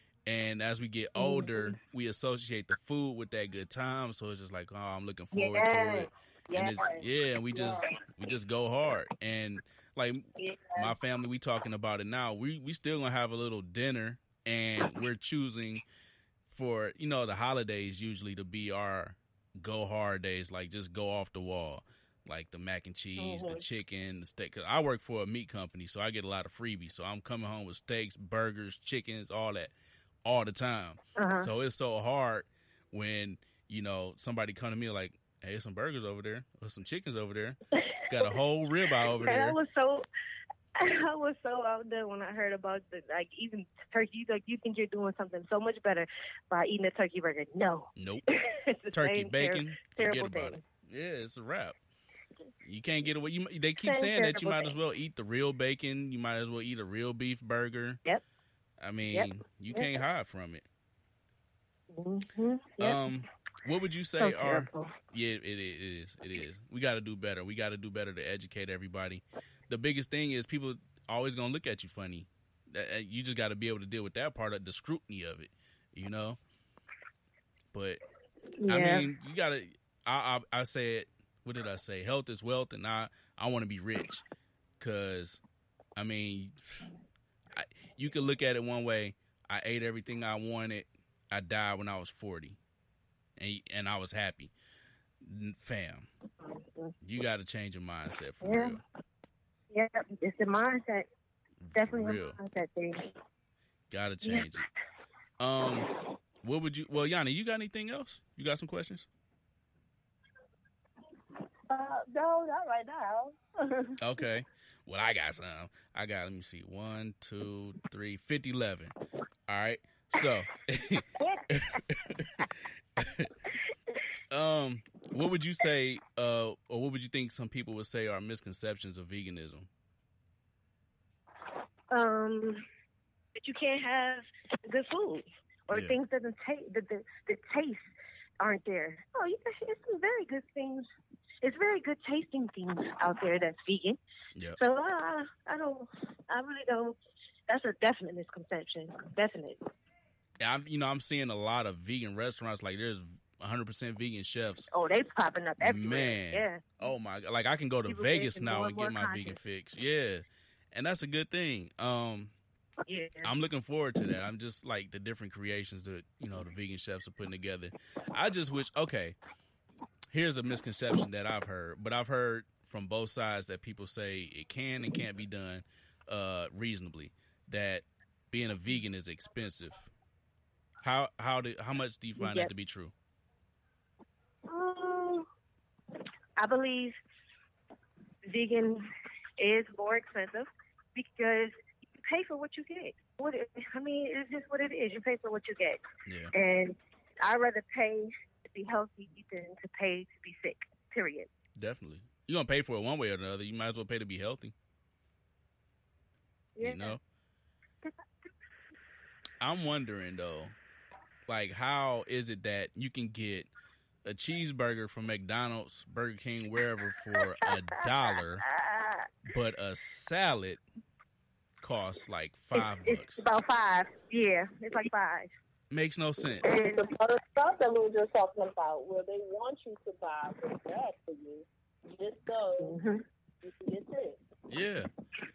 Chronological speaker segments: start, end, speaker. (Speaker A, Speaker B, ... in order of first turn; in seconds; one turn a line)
Speaker A: 0.2-15.8
Speaker B: 1.2-1.8
Speaker B: 5.3-8.0
Speaker B: 10.4-10.9
Speaker A: 16.5-29.7
Speaker B: 23.2-23.6
Speaker A: 30.2-39.6
Speaker B: 31.1-31.5
Speaker B: 37.7-38.4
Speaker B: 39.0-40.0
Speaker B: 40.8-50.6
Speaker A: 48.0-48.2
Speaker A: 48.9-51.8
Speaker A: 52.6-58.0
Speaker B: 53.8-54.7
Speaker A: 58.8-60.6
Speaker B: 59.1-60.0
Speaker B: 61.9-63.1
Speaker A: 62.8-76.4
Speaker B: 64.2-64.9
Speaker A: 77.7-78.0
Speaker B: 78.6-79.1
Speaker A: 78.7-84.2
Speaker A: 84.8-85.4
Speaker A: 86.0-86.9
Speaker A: 87.5-92.6
Speaker A: 93.4-94.5
Speaker A: 95.2-96.1
Speaker B: 96.4-96.9
Speaker A: 97.0-98.8
Speaker B: 98.4-98.8
Speaker B: 99.7-101.1
Speaker A: 101.6-102.4
Speaker B: 101.7-103.1
Speaker A: 103.9-104.7
Speaker B: 104.2-104.5
Speaker A: 105.4-105.9
Speaker A: 106.4-109.1
Speaker C: 111.7-114.0
Speaker A: 114.0-118.9
Speaker A: 119.5-123.5
Speaker B: 121.2-121.8
Speaker A: 124.3-129.7
Speaker B: 131.9-132.6
Speaker B: 133.3-137.8
Speaker A: 135.7-136.0
Speaker B: 138.4-140.9
Speaker B: 141.4-144.0
Speaker B: 144.6-147.0
Speaker B: 147.5-149.6
Speaker A: 150.4-154.7
Speaker B: 154.7-156.6
Speaker A: 155.6-162.3
Speaker B: 157.9-159.4
Speaker B: 162.8-163.3
Speaker A: 163.2-169.2
Speaker A: 170.1-179.9
Speaker A: 180.8-182.9
Speaker B: 182.2-182.5
Speaker B: 184.5-185.3
Speaker B: 186.4-186.9
Speaker B: 188.2-188.8
Speaker B: 189.4-195.8
Speaker A: 196.1-196.3
Speaker B: 196.3-201.3
Speaker A: 201.6-204.5
Speaker B: 206.6-207.0
Speaker A: 206.6-207.0
Speaker A: 209.4-210.6
Speaker A: 211.3-213.5
Speaker A: 214.0-218.4
Speaker B: 217.8-219.1
Speaker A: 219.2-220.6
Speaker A: 221.6-223.2
Speaker B: 222.5-225.3
Speaker A: 225.7-226.5
Speaker B: 226.4-226.9
Speaker C: 226.4-232.8
Speaker B: 232.6-233.0
Speaker C: 233.4-234.2
Speaker A: 234.5-234.9